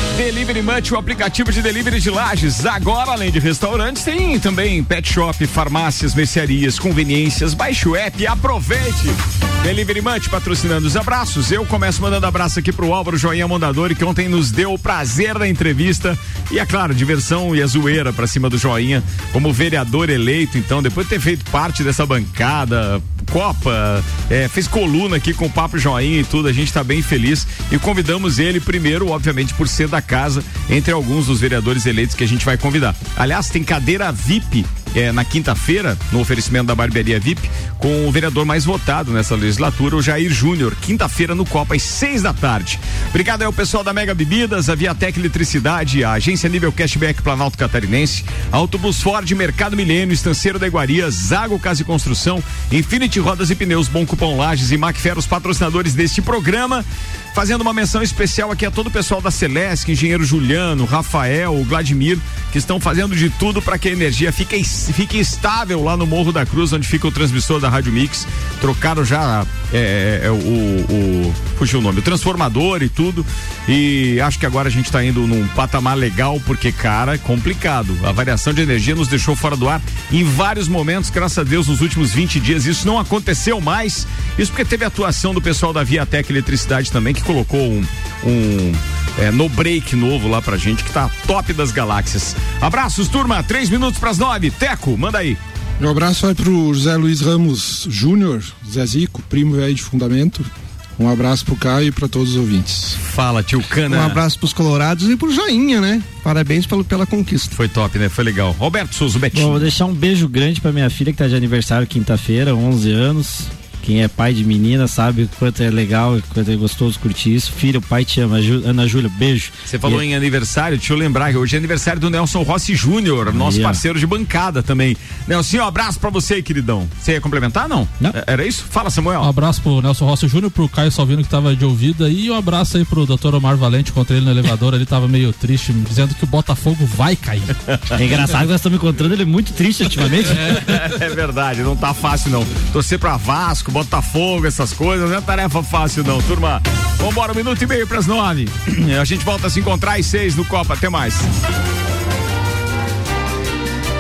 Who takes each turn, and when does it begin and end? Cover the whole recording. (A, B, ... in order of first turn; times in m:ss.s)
0:00.2-1:35.4 A
1:35.8-1:43.0 B
1:43.0-1:44.2 A
1:43.9-1:47.5 C
1:47.5-1:49.7 A
1:49.3-2:00.0 D
1:59.7-2:09.3 A
2:03.3-2:03.8 D
2:09.2-2:17.5 E
2:18.0-2:20.6 D
2:20.4-2:31.3 A